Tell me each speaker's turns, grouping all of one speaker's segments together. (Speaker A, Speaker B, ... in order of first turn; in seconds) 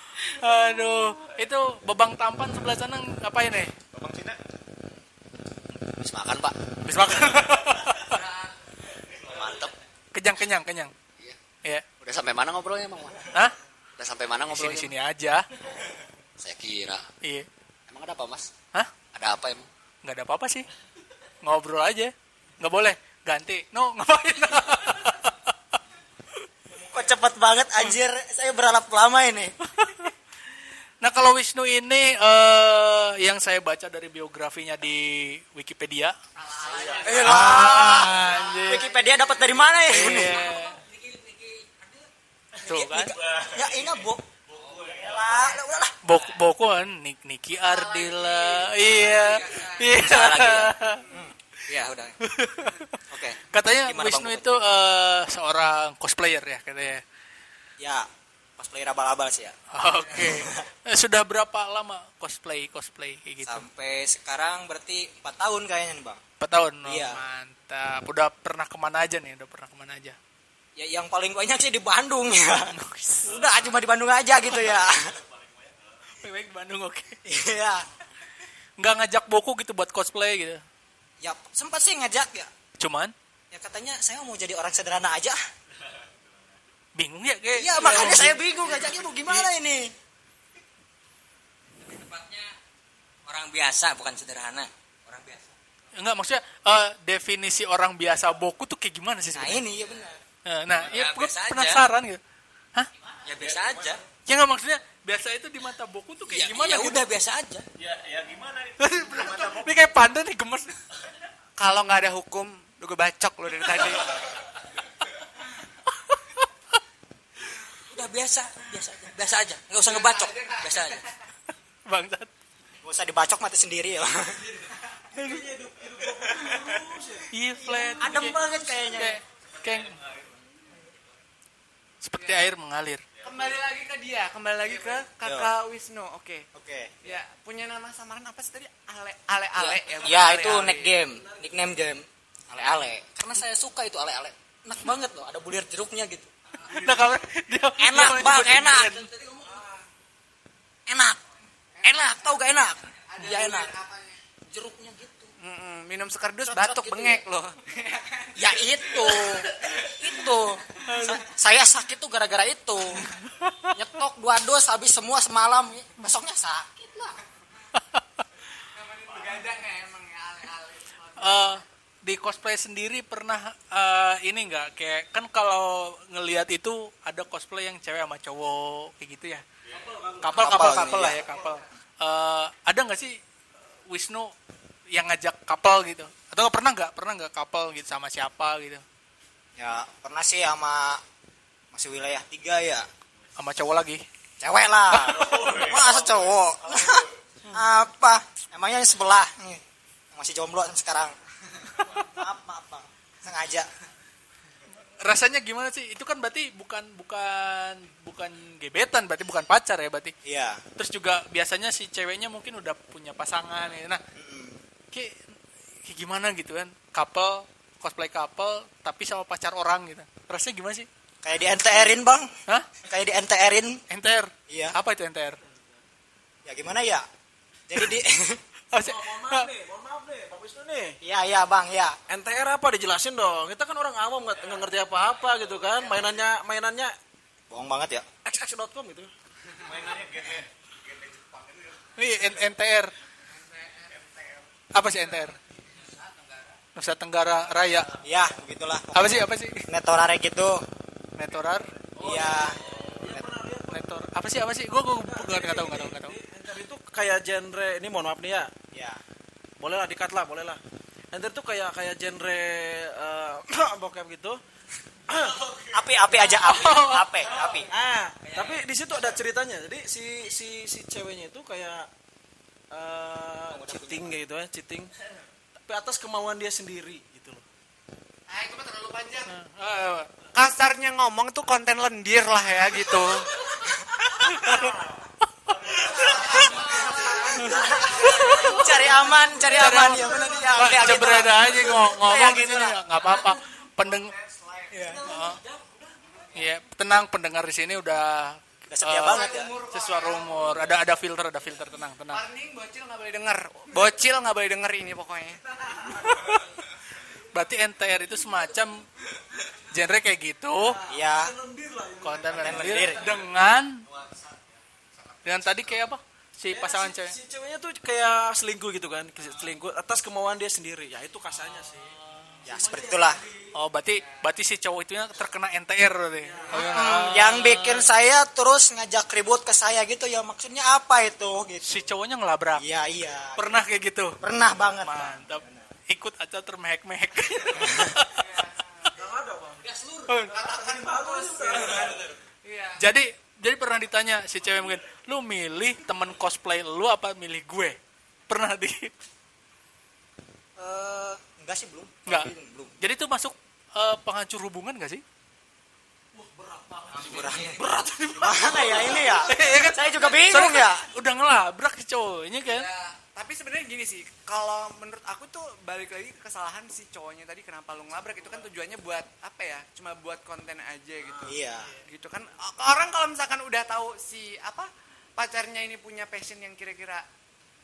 Speaker A: 0.2-3.7, 6.8-8.2, 10.1-10.9, 14.5-15.5, 20.0-20.7, 21.4-25.5, 29.8-30.1, 31.0-36.1, 37.0-38.9, 39.9-40.8, 42.6-43.1, 46.0-51.0, 52.2-53.0, 53.5-57.0, 59.7-63.7, 66.4-70.2, 72.7-73.3, 76.2-77.2, 78.8-80.6, 82.8-83.1, 87.0-88.4, 95.9-99.7, 100.4-102.2, 104.2-107.0, 108.8-110.7, 121.8-122.3, 125.2-125.4, 127.3-128.4, 128.9-130.0, 132.0-133.0, 146.6-149.1, 160.8-161.3, 163.2-163.7, 171.2-179.4, 180.2-183.2, 183.9-184.3, 184.9-188.8, 193.4-194.0, 194.9-195.2, 205.0-210.1, 210.8-214.0, 215.8-220.9, 223.9-225.4, 228.7-229.5, 242.0-242.9, 244.7-245.4, 246.8-247.9, 248.9-249.7, 251.2-251.7, 253.7-256.1, 266.4-267.1, 279.3-280.1, 284.1-284.7, 288.2-288.7, 289.4-294.1, 295.0-295.4, 296.3-302.2, 305.9-306.5, 307.3-308.9, 309.7-310.8, 312.0-313.8, 315.2-317.1, 323.5-327.9, 331.6-332.7, 333.4-334.1, 334.8-338.2, 340.1-340.3, 342.8-347.8, 348.3-348.9, 352.1-355.0, 357.4-362.7
Speaker B: 3.9-4.4, 42.9-45.5, 75.1-75.8, 103.4-104.0, 107.8-109.7, 129.6-130.1, 195.1-197.1, 239.6-241.7
Speaker C: 6.0-6.5, 9.3-9.7, 12.0-13.2, 14.0-14.9, 16.4-17.1, 17.9-18.5, 19.1-19.6, 153.2-153.8, 154.6-155.2
Speaker D: 26.7-29.5, 36.9-40.4, 43.5-44.2, 44.8-45.9, 53.1-54.4, 57.8-59.5, 60.2-60.6, 63.4-66.2, 66.8-67.2, 70.8-72.7, 73.2-75.0, 77.2-77.8, 81.2-82.5, 83.5-85.4, 87.5-89.9, 99.3-100.2, 122.8-124.4, 128.0-129.2, 135.2-135.5, 136.5-136.9, 139.6-146.3, 147.8-149.0, 150.9-151.2, 151.8-153.7, 154.8-155.3, 156.5-157.2, 158.3-163.1, 163.8-167.2, 180.3-181.2, 189.6-191.0, 191.7-192.9, 194.4-199.6, 200.1-201.1, 202.0-203.7, 210.2-210.6, 214.1-214.6, 221.2-222.3, 222.8-223.8, 224.5-224.8, 226.4-227.0, 227.7-228.4, 231.0-231.9, 237.5-238.1, 248.0-250.6, 252.0-252.6, 258.7-259.0, 265.7-267.7, 273.5-274.1, 284.3-284.7, 285.8-292.8, 294.7-295.0, 298.7-299.6, 310.9-311.3, 312.3-313.1, 322.4-323.2, 326.5-331.6, 332.6-333.4, 334.2-335.6, 350.6-352.7, 357.0-357.5, 358.2-360.8, 371.2-371.7
Speaker E: 36.4-37.3, 47.7-49.9, 111.6-114.2, 119.9-121.0, 132.2-132.5, 133.2-136.4, 137.0-140.9, 155.4-158.3, 168.7-171.6, 243.5-243.9, 278.3-279.3, 280.3-283.5, 285.9-289.0, 299.1-300.7, 302.1-305.4, 338.2-338.9, 340.3-342.8, 363.1-371.3, 371.9-377.1
Speaker F: 39.6-42.0, 42.7-43.1, 49.9-50.7, 51.8-52.1, 91.8-92.5, 93.2-95.4, 100.8-101.8, 103.2-104.0, 106.3-107.7, 117.9-121.0, 245.8-246.4, 268.2-268.6, 356.9-357.5, 362.4-362.9
Speaker G: 125.1-127.3, 141.1-141.5, 146.7-147.1, 179.7-180.4, 228.8-231.0, 232.1-236.9, 238.2-239.1, 252.0-254.1, 254.9-258.5, 259.6-260.6, 261.1-264.4, 265.1-265.4, 267.6-271.9, 272.7-274.9, 275.7-277.4, 310.6-313.1, 316.5-323.5, 326.2-326.8, 338.9-339.7, 340.3-342.0, 356.1-357.5, 358.4-359.2, 371.0-371.3